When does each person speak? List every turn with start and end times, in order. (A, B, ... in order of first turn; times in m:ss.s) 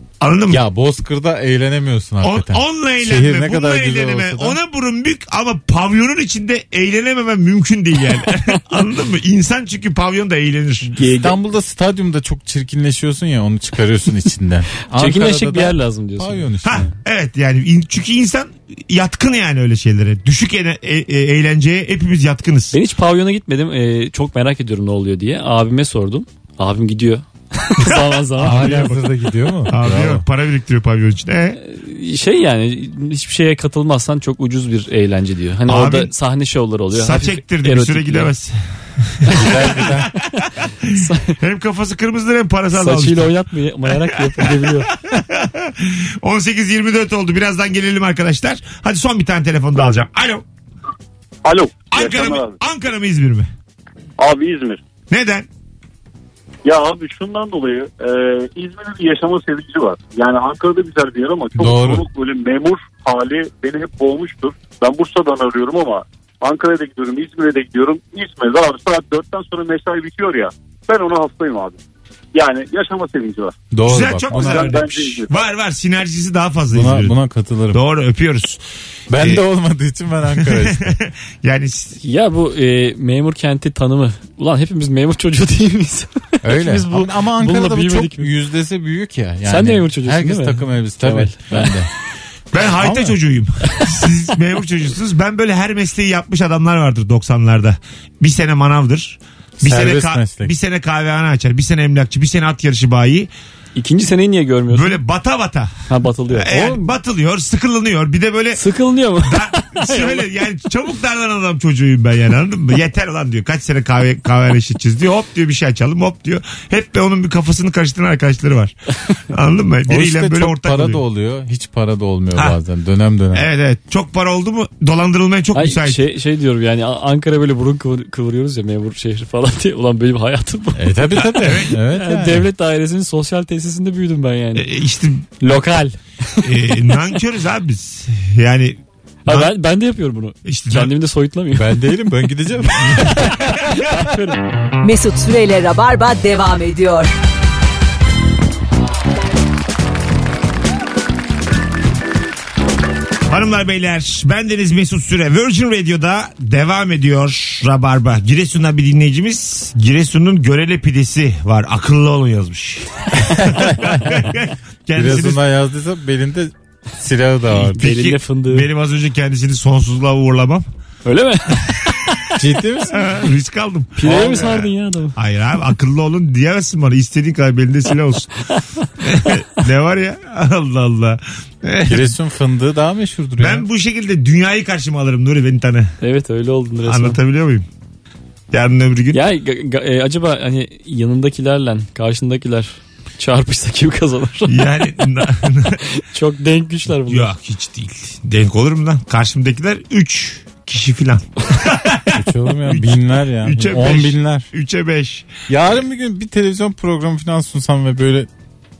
0:00.2-0:00.6 A
0:00.5-0:04.6 B
0:02.2-0:10.9 A
0:10.9-0:11.4 C
0:11.1-0:16.9 B
0:14.9-0:16.8 C
0:16.6-0:22.7 A
0:22.7-0:29.0 C
0:27.8-0:29.0 A
0:28.4-0:30.2 B
0:29.7-0:31.6 A
0:31.6-0:38.3 C
0:35.7-0:36.1 A
0:36.9-0:43.3 A
0:39.3-0:40.1 B
0:40.4-0:41.4 C
0:42.7-0:44.9 C
0:44.1-0:50.4 A
0:51.4-0:52.6 D
0:51.9-0:53.5 A
0:54.2-0:54.8 D
0:55.1-0:55.5 A
0:56.6-1:11.8 D
1:01.6-1:02.0 B
1:12.3-1:13.6 D
1:13.7-1:14.8 B
1:13.9-1:17.2 A
1:14.3-1:15.3 D
1:16.7-1:17.8 B
1:17.7-1:18.6 A
1:19.1-1:20.9 B
1:20.4-1:22.0 A
1:22.0-1:28.3 C
1:26.4-1:31.9 B
1:29.4-1:31.7 C
1:32.5-1:43.3 A
1:32.8-1:33.2 B
1:39.6-1:40.5 B
1:43.7-1:45.0 C
1:44.7-1:45.7 A
1:45.9-1:46.9 C
1:46.3-1:48.6 A
1:48.5-1:50.2 C
1:49.2-2:01.0 A
1:59.9-2:03.5 B
2:03.3-2:06.0 A
2:05.5-2:14.7 C
2:10.8-2:12.5 B
2:11.3-2:11.7 A
2:14.6-2:15.2 A
2:15.4-2:16.7 C
2:16.4-2:19.5 A
2:19.2-2:21.9 C
2:20.4-2:20.9 A
2:21.5-2:23.5 B
2:23.0-2:24.4 C
2:24.8-2:27.1 E
2:33.3-2:45.4 A
2:43.5-2:44.0 B
2:44.9-2:47.8 B
2:47.7-2:50.6 A
2:47.8-2:48.7 C
2:51.0-2:51.9 C
2:51.7-2:52.1 A
2:52.4-2:53.1 B
2:52.9-2:58.3 A
2:54.0-2:55.2 C
2:54.0-2:54.6 B
2:59.0-3:02.1 A
3:01.8-3:03.6 B
3:03.4-3:05.9 A
3:06.0-3:07.2 C
3:06.8-3:07.6 A
3:08.5-3:09.2 A
3:09.1-3:14.5 C
3:14.5-3:15.8 A
3:15.9-3:17.3 C
3:17.0-3:25.3 A
3:22.1-3:24.5 B
3:25.5-3:28.3 B